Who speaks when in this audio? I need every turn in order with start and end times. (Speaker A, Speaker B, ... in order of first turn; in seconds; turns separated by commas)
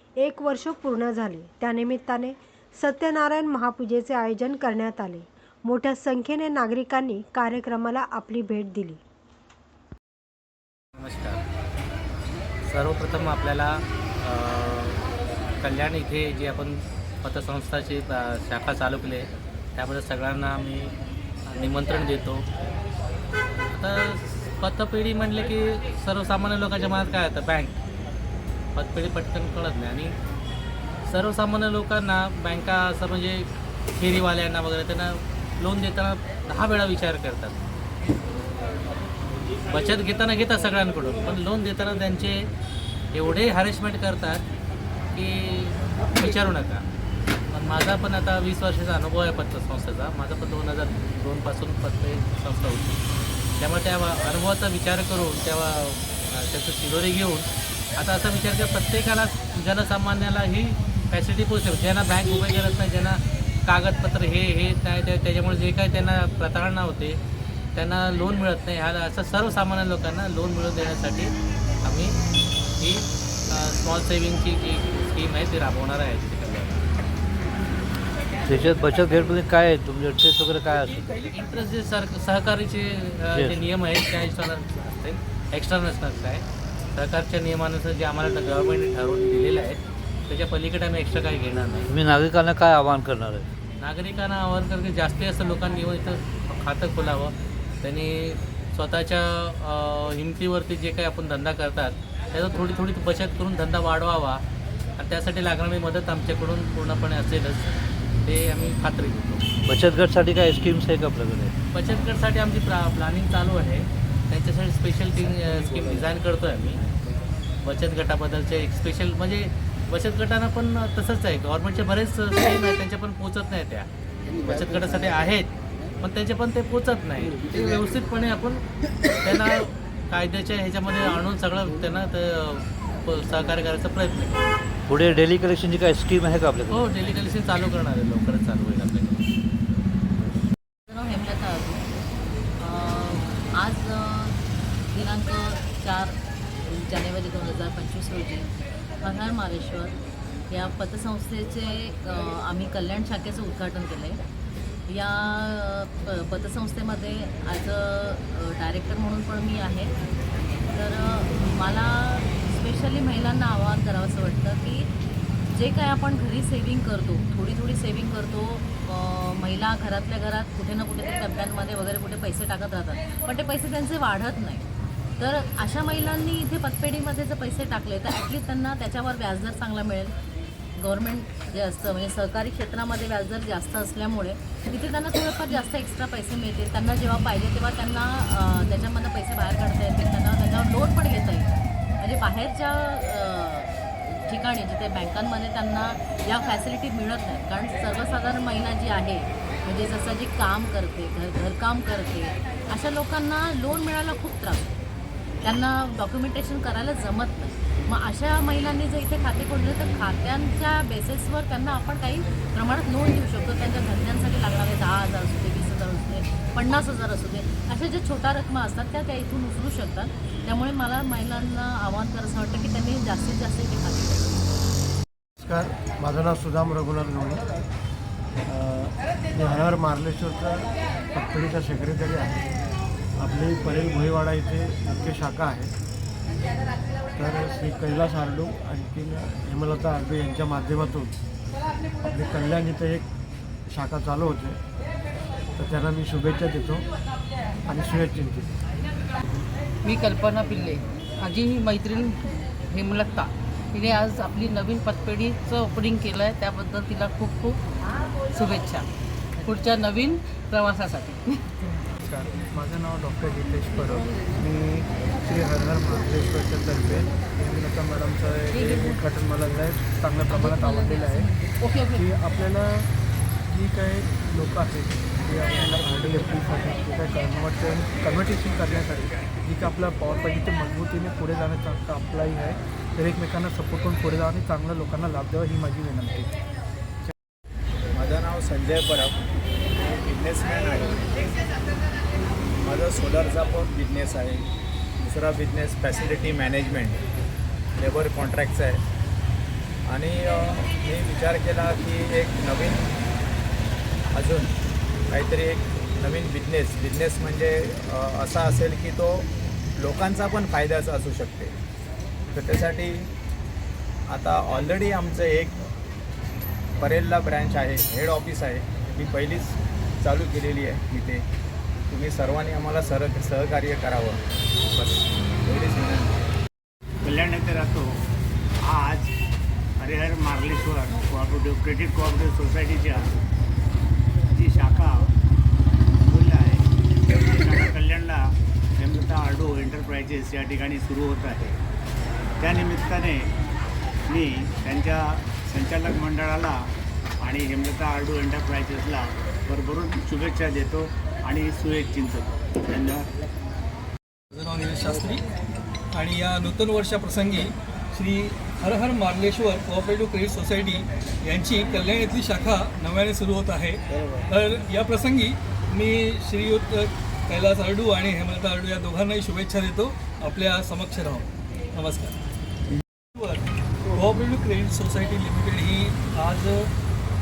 Speaker A: 0.2-9.0, Speaker B: 11.0-11.4, Speaker B: 12.7-15.0, Speaker B: 15.6-19.2, Speaker B: 19.8-20.9, Speaker B: 21.5-22.4, Speaker B: 23.7-27.7, Speaker B: 28.8-30.1, Speaker B: 31.1-37.5, Speaker B: 39.7-42.4, Speaker B: 43.1-44.4, Speaker B: 45.1-46.8, Speaker B: 47.5-53.0, Speaker B: 53.6-67.2, Speaker B: 67.8-71.3, Speaker B: 71.8-72.1, Speaker B: 72.8-76.8, Speaker C: 78.5-81.1, Speaker B: 81.3-91.9, Speaker C: 83.3-83.6, Speaker C: 91.9-93.5, Speaker B: 93.8-104.4, Speaker B: 105.0-107.7, Speaker B: 108.2-109.5, Speaker C: 109.7-111.5, Speaker B: 111.7-116.8, Speaker B: 117.6-123.9, Speaker B: 124.4-125.5, Speaker B: 126.0-128.6, Speaker B: 129.2-134.5, Speaker C: 134.9-137.0, Speaker B: 136.7-139.3, Speaker D: 140.9-141.8, Speaker D: 142.6-144.3, Speaker D: 144.9-148.5, Speaker D: 149.0-149.9, Speaker D: 150.5-154.2, Speaker D: 154.9-159.9, Speaker D: 160.7-164.9, Speaker D: 165.5-174.6, Speaker D: 175.2-180.1, Speaker D: 180.8-204.7, Speaker D: 205.4-224.4, Speaker E: 225.4-227.5, Speaker E: 228.5-232.5, Speaker E: 233.2-235.7, Speaker E: 237.2-241.1, Speaker E: 242.0-243.1, Speaker E: 243.7-244.6, Speaker E: 245.6-246.9, Speaker E: 247.7-248.5, Speaker F: 249.8-257.6, Speaker F: 258.3-258.9, Speaker F: 259.4-261.5, Speaker G: 262.0-271.3, Speaker F: 268.5-268.9, Speaker F: 270.4-272.0, Speaker G: 271.9-272.9, Speaker G: 273.5-286.3, Speaker H: 287.9-289.1, Speaker H: 289.9-291.3, Speaker H: 292.6-294.5, Speaker H: 295.0-297.0, Speaker H: 297.8-298.8, Speaker H: 299.9-302.9, Speaker H: 304.1-304.5, Speaker H: 305.1-311.5, Speaker H: 312.3-313.1, Speaker H: 314.1-315.6, Speaker H: 316.8-321.2, Speaker H: 321.9-326.2, Speaker I: 327.0-328.0, Speaker I: 328.6-329.1, Speaker I: 329.8-333.1, Speaker I: 334.3-335.1, Speaker I: 336.0-338.2, Speaker I: 338.8-341.5, Speaker I: 342.4-343.3, Speaker I: 344.1-346.6, Speaker I: 347.2-353.1, Speaker J: 354.3-355.2, Speaker J: 355.9-360.8, Speaker J: 361.3-363.8, Speaker J: 364.3-371.2, Speaker J: 371.8-372.1, Speaker J: 373.9-376.6